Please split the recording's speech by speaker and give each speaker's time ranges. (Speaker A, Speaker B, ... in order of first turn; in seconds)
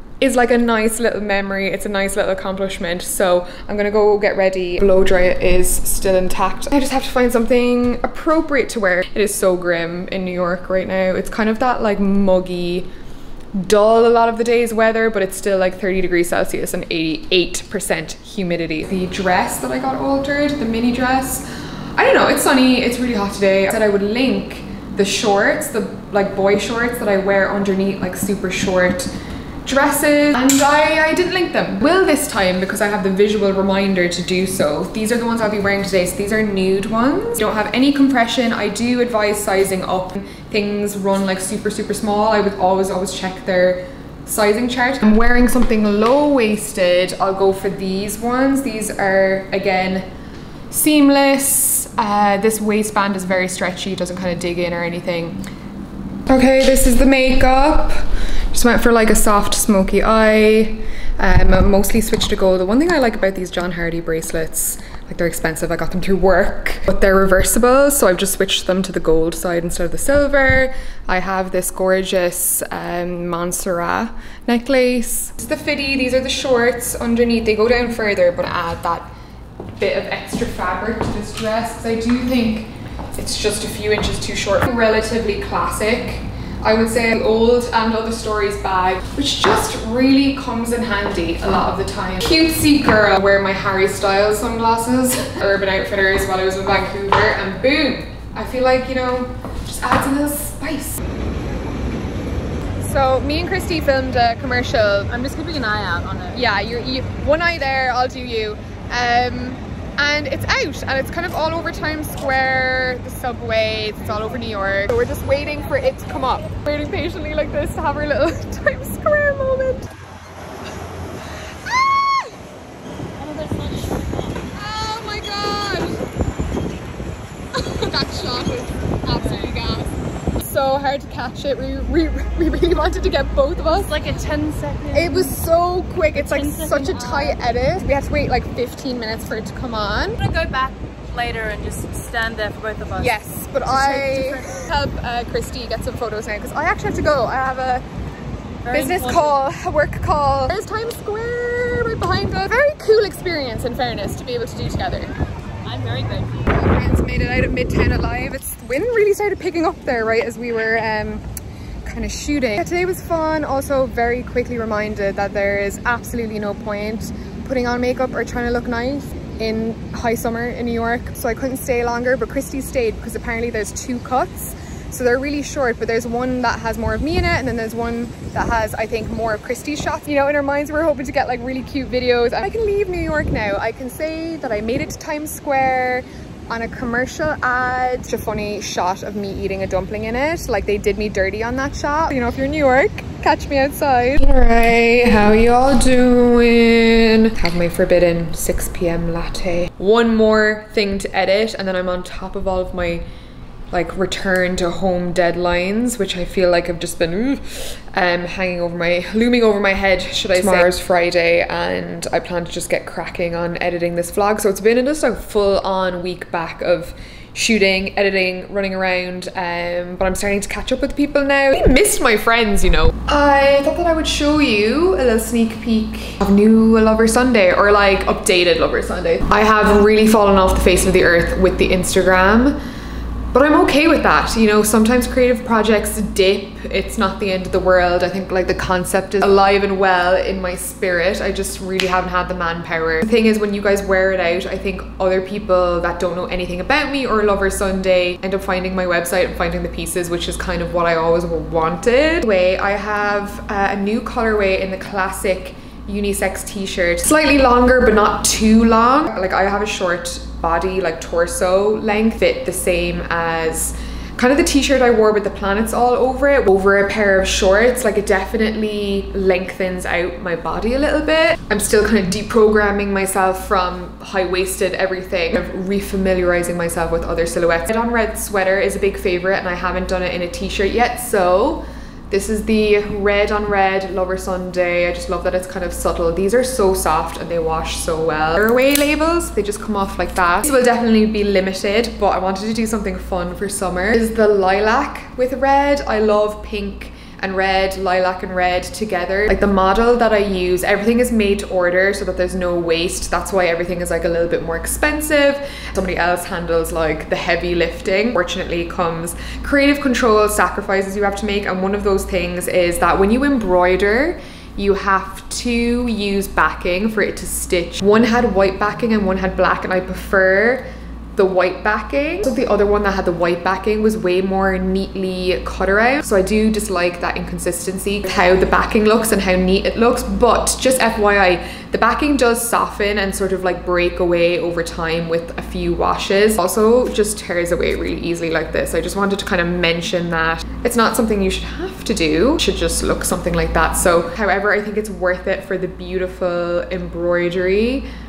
Speaker A: 0.2-12.9, 13.5-21.4, 21.9-29.1, 29.6-50.0, 50.7-55.4, 56.3-79.1, 79.8-101.0, 102.8-105.3, 106.3-119.9, 121.6-122.4, 124.5-126.0, 127.5-134.0, 134.9-140.2, 143.0-147.8, 148.7-155.1, 156.4-161.2, 161.8-203.1, 203.7-232.6, 233.3-347.9
Speaker B: 105.7-106.2, 123.2-124.1, 133.8-135.3, 136.2-137.4, 140.2-143.1, 143.7-144.5, 148.7-149.3, 155.7-156.3